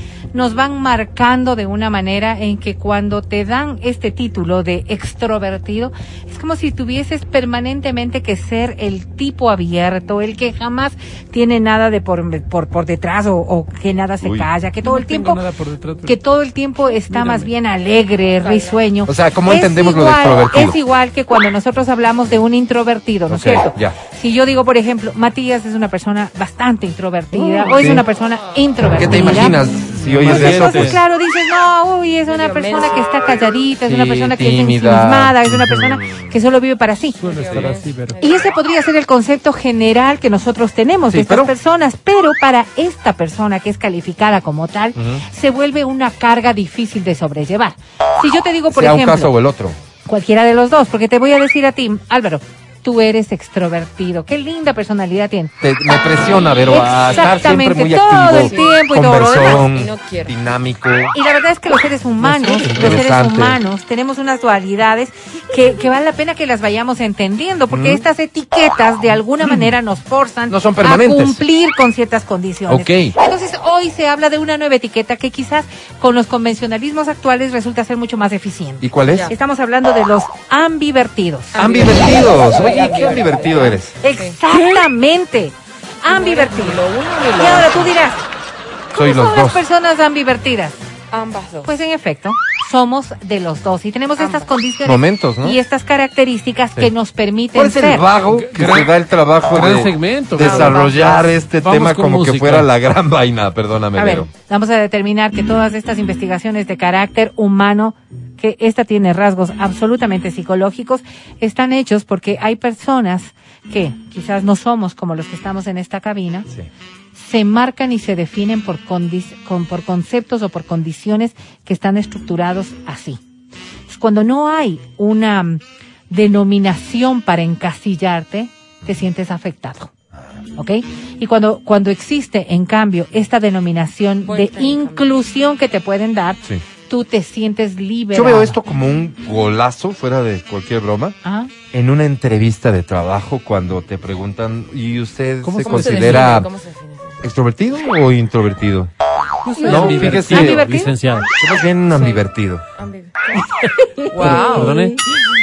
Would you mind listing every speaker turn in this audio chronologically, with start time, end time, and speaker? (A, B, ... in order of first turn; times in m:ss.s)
0:00.3-0:15.4 A
0:14.2-0:14.5 B
0:14.8-0:16.2 C
0:16.0-0:29.6 A
0:17.1-0:17.5 C
0:18.4-0:18.8 D
0:19.1-0:20.8 B
0:23.3-0:24.0 B
0:27.7-0:28.0 B
0:29.0-0:31.0 B
0:29.9-0:31.0 C
0:30.2-0:37.2 A
0:32.3-0:33.1 D
0:33.8-0:36.3 B
0:37.2-0:38.2 C
0:37.2-0:38.5 D
0:38.2-0:49.3 A
0:41.1-0:41.5 B
0:45.0-0:45.2 B
0:48.7-0:49.8 B
0:50.1-0:55.5 A
0:55.6-1:01.1 B
0:56.6-0:59.7 A
0:57.0-0:57.3 D
0:58.3-0:58.7 D
0:59.4-1:00.3 D
1:01.1-1:21.6 A
1:02.2-1:03.6 B
1:07.7-1:08.0 B
1:10.5-1:11.4 B
1:12.7-1:13.2 B
1:18.8-1:19.3 B
1:21.5-1:24.0 B
1:21.6-1:24.4 D
1:24.0-1:26.8 A
1:26.1-1:27.9 D
1:27.4-1:28.2 A
1:28.9-1:30.8 A
1:29.0-1:29.6 B
1:31.1-1:31.8 D
1:31.6-1:38.1 A
1:34.2-1:34.5 D
1:34.8-1:35.6 B
1:37.6-1:44.3 B
1:38.3-1:38.9 C
1:39.5-1:42.7 C
1:40.4-1:41.2 D
1:44.0-1:56.5 A
1:57.1-2:03.2 A
2:03.9-2:09.9 A
2:10.6-2:18.6 A
2:14.2-2:15.1 D
2:18.1-2:21.2 B
2:21.2-2:21.5 A
2:21.7-2:26.5 B
2:25.4-2:26.4 C
2:25.6-2:27.2 D
2:27.2-2:28.9 B
2:29.4-2:31.3 C
2:29.6-2:30.9 A
2:29.6-2:30.7 B
2:31.4-2:32.6 B
2:31.9-2:32.2 D
2:32.8-2:33.5 D
2:34.1-2:35.0 C
2:34.1-2:34.9 D